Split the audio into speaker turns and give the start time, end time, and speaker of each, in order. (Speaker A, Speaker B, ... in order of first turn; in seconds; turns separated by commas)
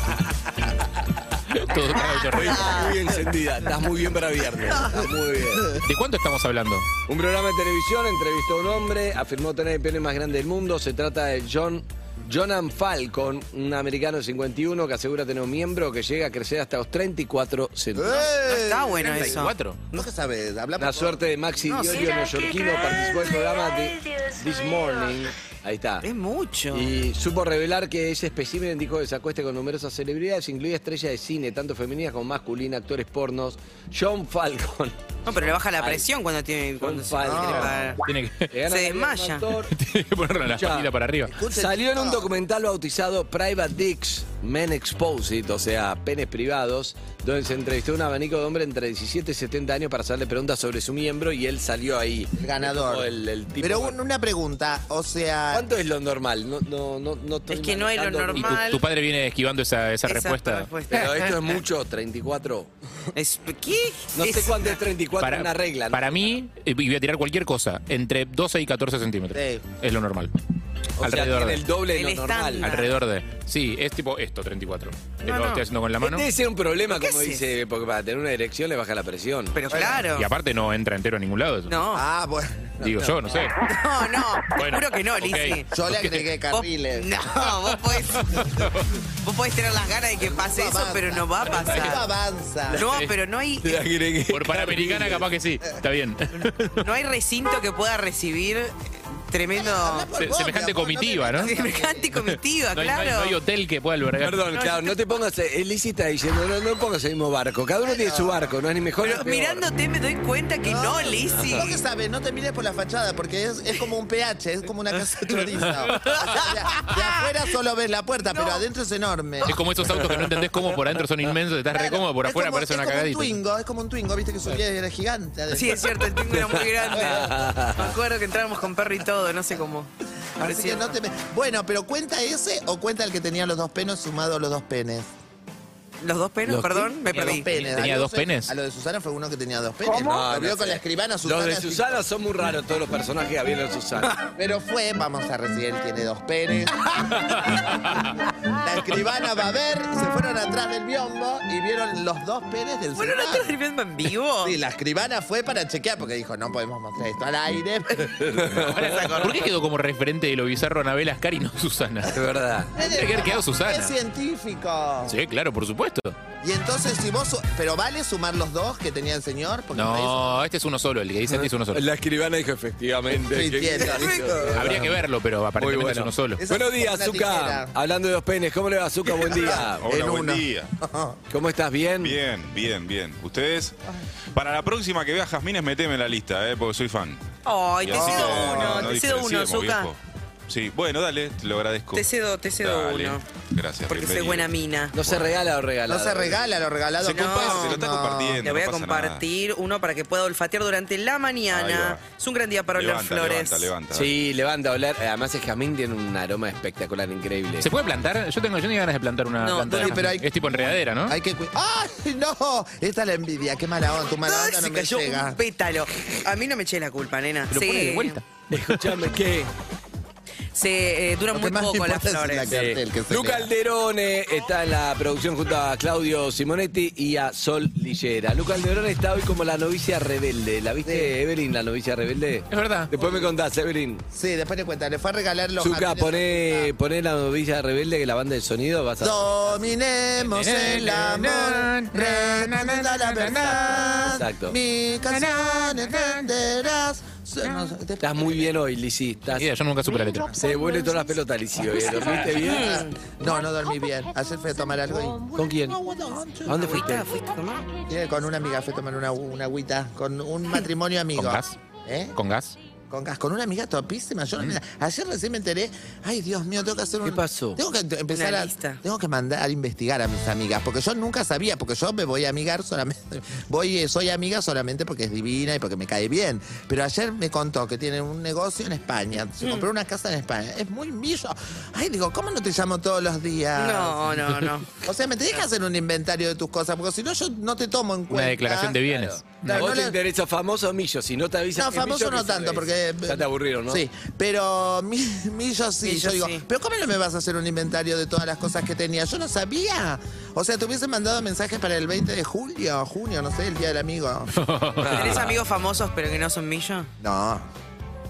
Speaker A: 1.5-2.8, Speaker B: 2.3-5.8, Speaker A: 5.8-6.9, Speaker B: 7.1-18.3, Speaker C: 18.0-19.1, Speaker D: 18.1-20.1, Speaker A: 19.0-19.8, Speaker C: 19.9-21.2, Speaker B: 20.8-26.1, Speaker D: 21.6-23.0, Speaker D: 26.0-26.9, Speaker B: 26.7-36.0, Speaker D: 35.2-38.0, Speaker B: 36.8-37.7, Speaker C: 37.2-37.8, Speaker A: 37.4-38.5, Speaker B: 38.5-39.7, Speaker D: 38.7-39.5, Speaker A: 39.7-41.3, Speaker B: 40.6-54.0, Speaker C: 41.3-42.3, Speaker C: 52.4-55.6, Speaker B: 55.5-58.7, Speaker D: 57.5-58.8, Speaker A: 58.4-61.3, Speaker D: 60.1-61.1, Speaker B: 60.9-62.7, Speaker D: 63.1-64.8, Speaker B: 64.2-66.3, Speaker A: 65.2-70.3, Speaker C: 69.3-69.6, Speaker B: 71.0-72.7, Speaker A: 71.0-71.6, Speaker D: 71.9-72.9, Speaker A: 72.6-76.3, Speaker D: 75.2-75.6, Speaker B: 76.0-79.6, Speaker D: 76.9-77.4, Speaker D: 79.5-80.3, Speaker C: 79.7-80.1, Speaker A: 80.1-81.8, Speaker D: 81.7-82.0, Speaker C: 81.9-83.4, Speaker A: 82.8-83.5, Speaker D: 83.6-85.7, Speaker A: 84.5-86.3, Speaker C: 85.7-87.1, Speaker D: 86.5-88.4, Speaker A: 88.3-88.7, Speaker D: 89.2-92.0, Speaker C: 90.2-92.8, Speaker A: 91.5-91.9, Speaker D: 92.8-93.8, Speaker A: 92.8-93.1, Speaker B: 93.6-95.2, Speaker A: 94.3-96.8, Speaker D: 96.8-100.1, Speaker C: 99.5-102.1, Speaker A: 100.2-101.5, Speaker D: 101.4-103.3, Speaker A: 102.1-104.4, Speaker B: 104.2-109.7, Speaker C: 107.9-108.5, Speaker D: 109.0-111.7, Speaker C: 110.6-119.6, Speaker B: 111.2-111.7, Speaker D: 115.9-117.1, Speaker A: 119.5-123.4, Speaker C: 121.7-126.0, Speaker D: 125.5-130.9, Speaker B: 126.3-128.0, Speaker C: 130.4-135.1, Speaker D: 136.0-137.5, Speaker B: 136.4-136.9, Speaker C: 137.1-142.0, Speaker A: 137.3-138.5, Speaker B: 140.0-144.2, Speaker C: 144.4-147.9, Speaker A: 147.3-148.0, Speaker C: 148.5-153.5, Speaker D: 153.0-154.6, Speaker C: 154.4-158.4, Speaker B: 158.2-159.3, Speaker A: 158.6-162.2, Speaker D: 158.8-159.1, Speaker B: 162.1-162.7, Speaker C: 162.8-165.2, Speaker A: 162.8-163.9, Speaker A: 165.1-166.2, Speaker C: 166.4-170.4, Speaker A: 169.7-171.8, Speaker B: 171.3-175.0, Speaker C: 173.2-174.8, Speaker D: 173.8-174.5, Speaker A: 174.5-176.4, Speaker B: 175.6-179.9, Speaker C: 176.4-177.7, Speaker C: 179.3-181.2, Speaker E: 179.5-180.7, Speaker B: 181.3-182.2, Speaker E: 182.0-183.8, Speaker E: 184.3-187.2, Speaker D: 187.4-189.9, Speaker E: 187.8-195.4, Speaker C: 187.9-188.9, Speaker D: 191.9-193.2, Speaker D: 193.9-194.9, Speaker B: 194.9-196.4, Speaker C: 195.9-198.5, Speaker D: 197.0-197.8, Speaker E: 197.0-199.2, Speaker D: 198.4-203.7, Speaker E: 201.5-202.0, Speaker E: 202.7-204.1, Speaker B: 203.9-207.7, Speaker A: 207.6-211.2, Speaker D: 209.4-210.0, Speaker C: 209.7-215.4, Speaker D: 214.2-218.2, Speaker A: 217.5-218.8, Speaker B: 218.5-219.5, Speaker D: 220.5-222.5, Speaker C: 221.3-223.5, Speaker B: 222.5-234.0, Speaker C: 230.8-231.1, Speaker A: 232.5-232.9, Speaker C: 234.1-236.7, Speaker B: 235.6-239.2, Speaker C: 239.0-248.5, Speaker A: 240.2-243.9, Speaker B: 244.2-244.6, Speaker A: 245.3-246.0, Speaker B: 248.0-249.5, Speaker A: 249.3-250.4, Speaker C: 250.3-250.6, Speaker B: 250.4-252.8, Speaker C: 252.0-256.8, Speaker D: 252.4-253.0, Speaker B: 255.3-255.8, Speaker B: 256.4-257.1, Speaker D: 256.5-257.7, Speaker C: 257.9-262.1, Speaker A: 261.1-261.6, Speaker A: 262.1-262.6, Speaker C: 262.9-284.2, Speaker B: 267.0-267.6, Speaker D: 268.1-268.8, Speaker D: 279.4-279.6, Speaker D: 283.6-284.7, Speaker C: 284.8-288.8, Speaker A: 288.1-289.7, Speaker B: 288.9-293.8, Speaker C: 289.4-290.0, Speaker C: 291.5-304.3, Speaker D: 295.8-296.4, Speaker A: 304.4-305.3, Speaker B: 304.8-305.4, Speaker D: 304.9-306.9, Speaker C: 307.0-307.5